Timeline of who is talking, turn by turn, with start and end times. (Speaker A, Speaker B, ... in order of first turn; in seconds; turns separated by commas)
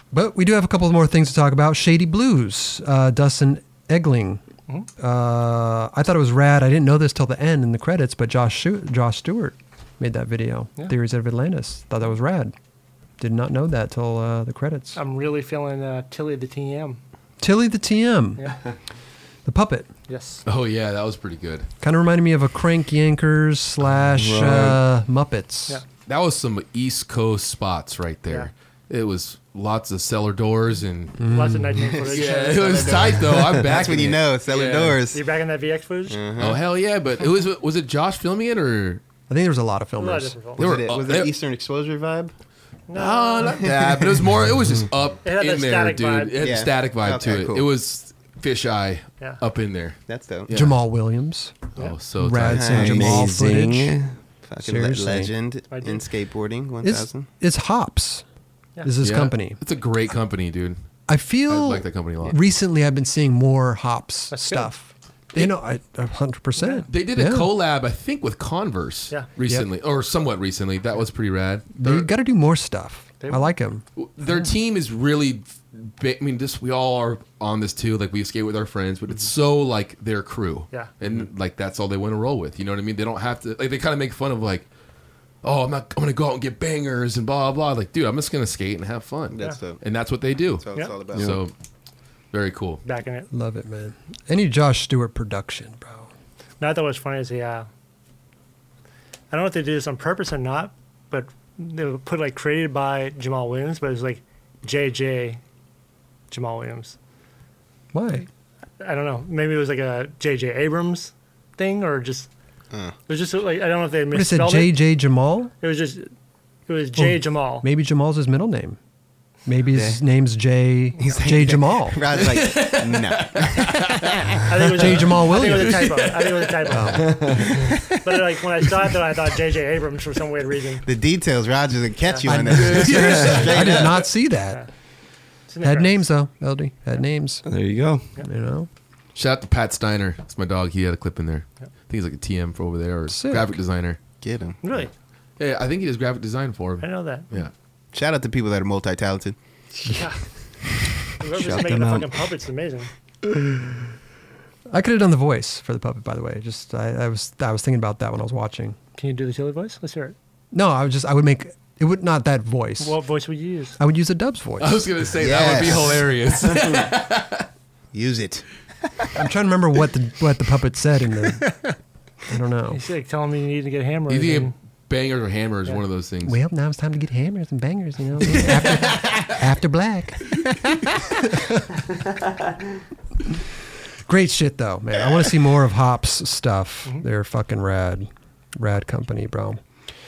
Speaker A: 0.1-4.4, Speaker A: 5.0-12.5, Speaker A: 13.2-15.0, Speaker B: 14.9-17.0, Speaker A: 17.4-18.4, Speaker A: 19.4-19.9, Speaker B: 20.1-20.4, Speaker C: 20.4-21.7, Speaker A: 21.8-25.8, Speaker D: 24.1-24.8, Speaker C: 26.1-31.3, Speaker A: 31.2-31.8, Speaker B: 31.3-33.1, Speaker E: 31.9-35.2, Speaker C: 32.0-35.0, Speaker B: 35.1-36.2, Speaker E: 36.1-36.6, Speaker C: 36.4-39.0, Speaker A: 39.3-40.4, Speaker B: 40.0-40.6, Speaker E: 40.6-42.3, Speaker C: 40.6-41.3, Speaker B: 42.9-43.6, Speaker C: 42.9-50.0, Speaker E: 43.5-44.2, Speaker B: 45.2-46.4, Speaker E: 46.4-47.7, Speaker E: 50.1-50.5, Speaker C: 50.5-50.8, Speaker A: 50.5-51.6, Speaker C: 51.8-52.6, Speaker A: 52.2-54.0, Speaker E: 52.4-53.2, Speaker D: 52.7-54.1, Speaker E: 54.5-57.3, Speaker A: 54.6-55.3, Speaker B: 55.7-56.0, Speaker A: 56.8-58.2, Speaker A: 58.8-59.6, Speaker C: 59.0-60.8, Speaker A: 61.1-67.5, Speaker C: 61.5-62.4, Speaker B: 64.3-64.7, Speaker B: 66.6-66.8, Speaker C: 66.9-72.1, Speaker A: 71.8-73.8, Speaker B: 73.2-73.5, Speaker C: 74.0-84.7, Speaker C: 85.4-91.5, Speaker E: 89.3-89.8, Speaker E: 90.6-91.4, Speaker D: 91.1-91.4, Speaker C: 92.3-92.8, Speaker B: 92.8-93.3, Speaker A: 93.3-96.1, Speaker B: 96.6-97.7, Speaker B: 99.3-105.4, Speaker B: 106.3-107.0, Speaker A: 107.9-108.3, Speaker B: 108.8-112.3, Speaker B: 113.1-114.8, Speaker A: 114.1-115.5, Speaker B: 115.6-116.1, Speaker B: 116.7-117.7, Speaker A: 117.0-118.8, Speaker A: 119.5-122.0, Speaker E: 119.7-120.0, Speaker E: 121.0-124.3, Speaker C: 122.1-124.2, Speaker B: 124.5-127.4, Speaker A: 124.8-125.8, Speaker C: 125.5-126.5, Speaker A: 126.7-127.3, Speaker D: 127.0-127.6, Speaker B: 128.0-130.8, Speaker E: 130.8-134.0, Speaker A: 132.2-134.6, Speaker C: 132.5-133.8, Speaker B: 135.5-136.0, Speaker A: 135.6-137.5, Speaker D: 137.4-138.1, Speaker A: 138.2-138.7, Speaker C: 139.1-144.0, Speaker A: 143.1-143.6, Speaker E: 144.2-144.8, Speaker B: 144.6-144.9, Speaker C: 145.4-147.5, Speaker B: 146.8-147.3, Speaker E: 147.9-149.3, Speaker B: 149.8-150.2, Speaker B: 151.2-152.9, Speaker D: 151.3-152.2, Speaker A: 154.7-158.8, Speaker B: 159.0-160.1, Speaker A: 160.5-163.0, Speaker B: 162.8-163.8, Speaker A: 163.8-164.9, Speaker C: 164.6-167.4, Speaker E: 165.2-166.1, Speaker E: 167.9-168.4, Speaker A: 169.1-171.5, Speaker B: 171.4-171.7, Speaker A: 172.3-172.8, Speaker B: 172.7-174.5, Speaker C: 174.1-176.4, Speaker A: 176.2-180.4, Speaker A: 181.2-181.5, Speaker A: 184.1-189.6